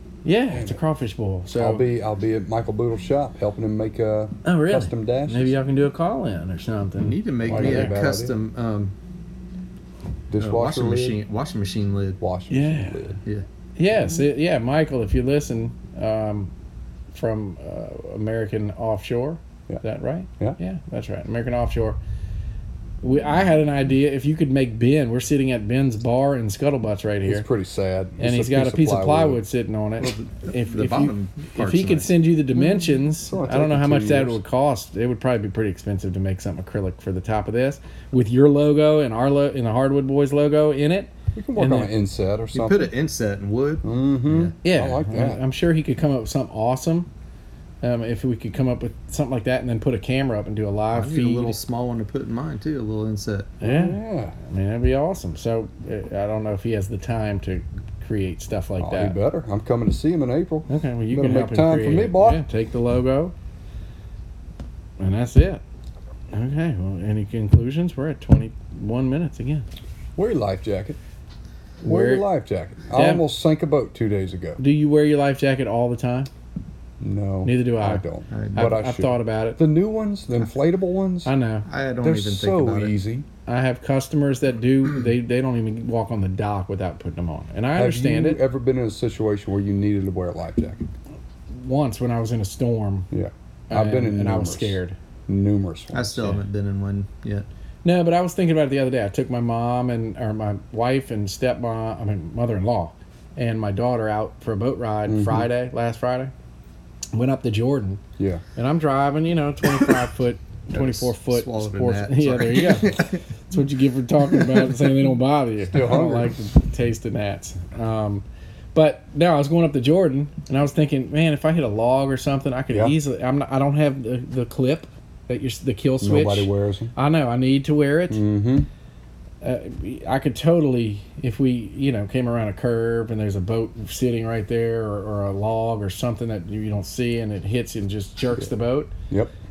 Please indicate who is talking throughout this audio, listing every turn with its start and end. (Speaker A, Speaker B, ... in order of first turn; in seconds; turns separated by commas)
Speaker A: 0.2-1.9, Speaker B: 0.5-0.8, Speaker B: 1.5-5.5, Speaker A: 4.5-8.0, Speaker C: 7.0-8.9, Speaker B: 7.5-8.4, Speaker B: 10.3-11.2, Speaker C: 10.4-12.2, Speaker B: 12.2-13.2, Speaker A: 12.5-13.1, Speaker A: 13.8-16.5, Speaker A: 17.1-22.0, Speaker A: 23.0-27.5, Speaker B: 27.3-29.4, Speaker A: 28.2-41.9, Speaker C: 30.0-32.1, Speaker B: 32.6-34.4, Speaker B: 41.4-42.9, Speaker C: 42.5-44.5, Speaker B: 43.8-45.4, Speaker A: 44.6-47.1, Speaker A: 47.8-51.6, Speaker C: 50.9-53.5, Speaker A: 53.6-59.2, Speaker B: 53.6-54.4, Speaker B: 58.8-62.4, Speaker A: 60.7-63.3, Speaker A: 65.0-65.6, Speaker A: 66.3-69.7, Speaker B: 70.2-71.0, Speaker A: 71.8-72.3, Speaker B: 71.8-74.6, Speaker A: 72.9-73.3, Speaker A: 74.6-76.3, Speaker B: 77.0-81.3, Speaker A: 77.5-78.0, Speaker C: 78.3-78.6, Speaker A: 78.5-79.6, Speaker A: 81.2-81.7, Speaker C: 81.7-82.9, Speaker B: 82.0-83.3, Speaker A: 83.5-88.4, Speaker B: 87.8-90.9, Speaker A: 91.5-93.1, Speaker B: 93.1-96.4, Speaker A: 93.7-95.0, Speaker C: 95.9-97.5, Speaker A: 97.8-106.3, Speaker B: 105.1-105.5, Speaker A: 107.1-108.0, Speaker B: 108.2-108.4, Speaker A: 108.6-128.2, Speaker C: 110.8-113.2, Speaker B: 115.7-116.3, Speaker B: 122.7-123.0, Speaker B: 126.0-126.9, Speaker B: 128.1-128.7, Speaker A: 129.4-138.9